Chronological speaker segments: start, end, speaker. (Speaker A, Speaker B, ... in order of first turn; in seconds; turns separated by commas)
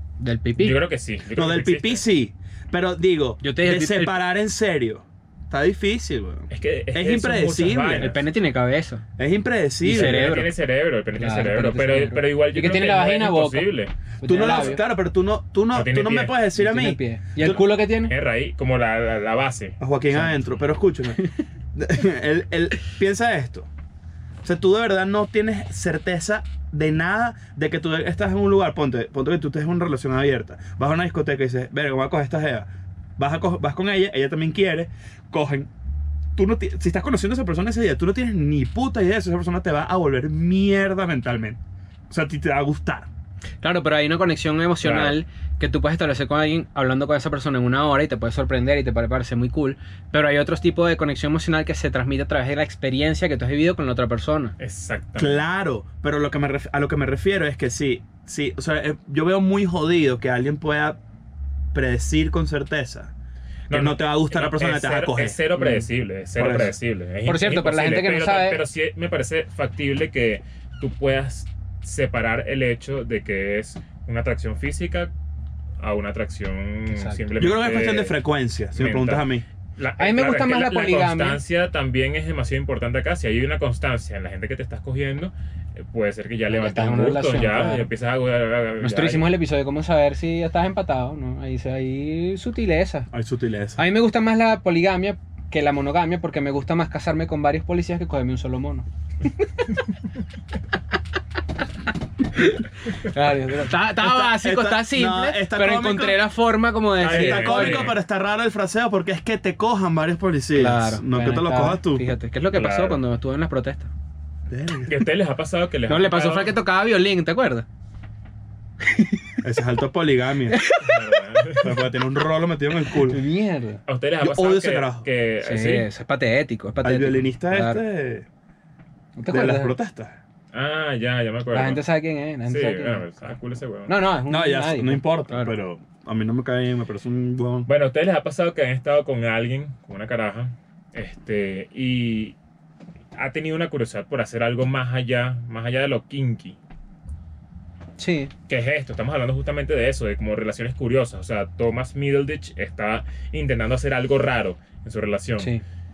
Speaker A: 0.2-0.8, Speaker B: 0.6-2.0, Speaker C: 1.4-8.1, Speaker A: 3.4-4.2, Speaker B: 6.5-8.2, Speaker A: 8.0-9.0, Speaker C: 9.2-10.3, Speaker A: 9.8-10.5, Speaker B: 9.9-14.8, Speaker A: 11.2-14.8, Speaker C: 14.2-17.6, Speaker B: 15.7-16.4, Speaker A: 16.6-18.1, Speaker B: 17.4-19.8, Speaker C: 19.8-21.2, Speaker A: 20.1-20.4, Speaker C: 21.8-23.7, Speaker C: 24.4-35.7, Speaker C: 36.4-43.1, Speaker A: 43.6-54.5, Speaker B: 44.8-45.2, Speaker B: 54.6-55.4, Speaker C: 55.2-61.0, Speaker C: 61.7-63.1, Speaker B: 63.7-75.1, Speaker C: 63.7-65.4, Speaker A: 65.6-65.9, Speaker C: 66.4-66.8, Speaker A: 67.3-68.6, Speaker B: 75.8-78.2, Speaker A: 76.9-77.2, Speaker C: 77.4-79.5, Speaker B: 78.8-89.3, Speaker A: 80.0-81.4, Speaker A: 86.5-87.9, Speaker A: 88.8-93.1, Speaker C: 93.1-93.8, Speaker A: 93.8-98.9, Speaker A: 102.3-107.9, Speaker C: 104.0-106.2, Speaker B: 107.0-108.0, Speaker C: 107.1-112.0, Speaker A: 110.5-113.9, Speaker B: 112.5-113.0, Speaker C: 114.5-115.0, Speaker B: 114.9-116.5, Speaker A: 115.9-117.7, Speaker A: 118.9-119.2, Speaker C: 119.4-120.6, Speaker A: 120.5-121.2, Speaker B: 120.8-121.8, Speaker C: 121.6-123.2, Speaker A: 123.0-123.8, Speaker B: 123.9-125.9, Speaker C: 124.2-125.1, Speaker A: 125.4-127.8, Speaker C: 126.8-128.3, Speaker A: 129.2-129.8, Speaker C: 129.3-130.2, Speaker B: 130.5-131.8, Speaker A: 131.5-133.1, Speaker B: 132.5-133.9, Speaker A: 133.9-135.6, Speaker C: 134.3-137.7, Speaker B: 137.7-142.4, Speaker B: 143.2-146.6, Speaker A: 148.0-148.3, Speaker B: 148.5-155.5